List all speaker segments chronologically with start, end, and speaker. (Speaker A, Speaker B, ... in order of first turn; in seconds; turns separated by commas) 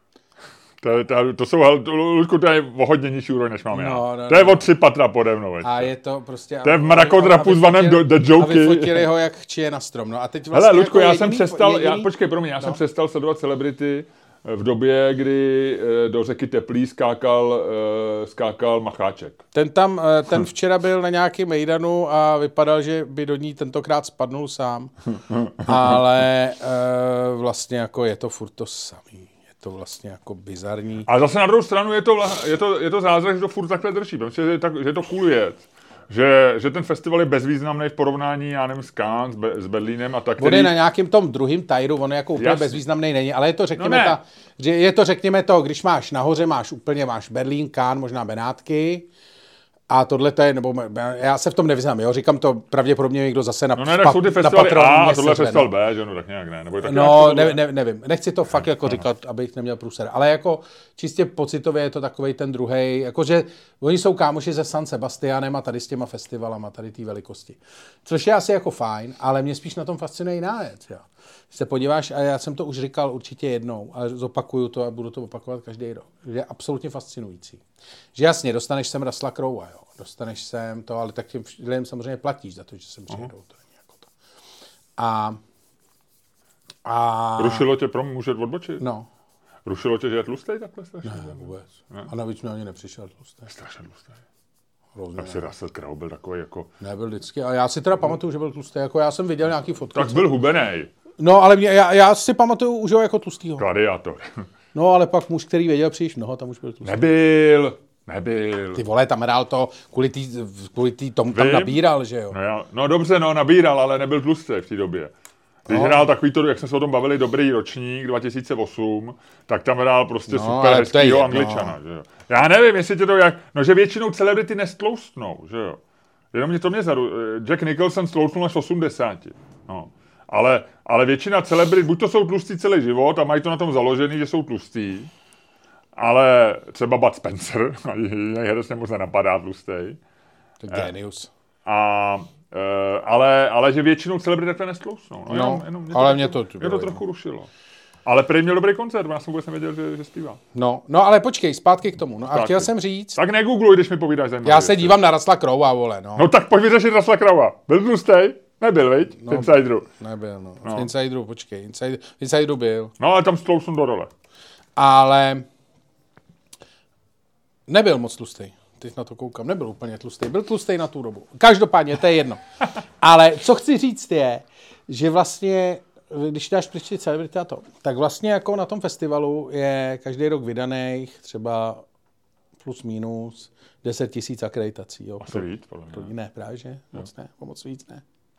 Speaker A: 0.8-5.9, Speaker B: 3.7-4.7, Speaker B: 5.6-12.8, Speaker A: 6.6-9.1, Speaker A: 10.5-19.4, Speaker B: 19.5-24.9, Speaker A: 25.3-26.0, Speaker B: 25.6-31.1, Speaker A: 31.1-40.7, Speaker B: 40.4-49.1, Speaker A: 42.4-42.8, Speaker A: 43.8-44.2, Speaker B: 49.9-55.7, Speaker A: 53.7-57.6, Speaker B: 56.8-77.6, Speaker B: 78.2-84.1, Speaker B: 85.0-85.4, Speaker B: 86.8-87.7, Speaker A: 87.4-88.8, Speaker B: 88.8-89.1, Speaker A: 89.6-92.1, Speaker B: 91.0-93.5, Speaker A: 93.5-94.1, Speaker B: 94.9-95.5, Speaker A: 95.2-96.7, Speaker B: 96.8-100.3, Speaker A: 100.0-100.9, Speaker B: 101.2-103.7, Speaker A: 103.6-104.4, Speaker B: 104.7-107.0, Speaker A: 106.8-108.8, Speaker B: 108.7-112.3, Speaker A: 111.3-115.1, Speaker A: 115.7-125.8, Speaker B: 115.7-116.0, Speaker B: 120.3-121.8, Speaker A: 126.3-135.1, Speaker A: 135.9-140.0, Speaker B: 140.6-141.3, Speaker A: 141.6-147.5, Speaker B: 145.3-147.0, Speaker A: 148.1-150.4, Speaker B: 150.5-153.2, Speaker A: 152.3-155.0, Speaker B: 154.4-156.3, Speaker A: 156.2-159.9, Speaker B: 159.2-162.9, Speaker A: 163.0-164.1, Speaker B: 164.8-165.4, Speaker B: 167.7-172.4, Speaker B: 173.0-181.8, Speaker B: 182.6-188.0, Speaker A: 185.2-186.1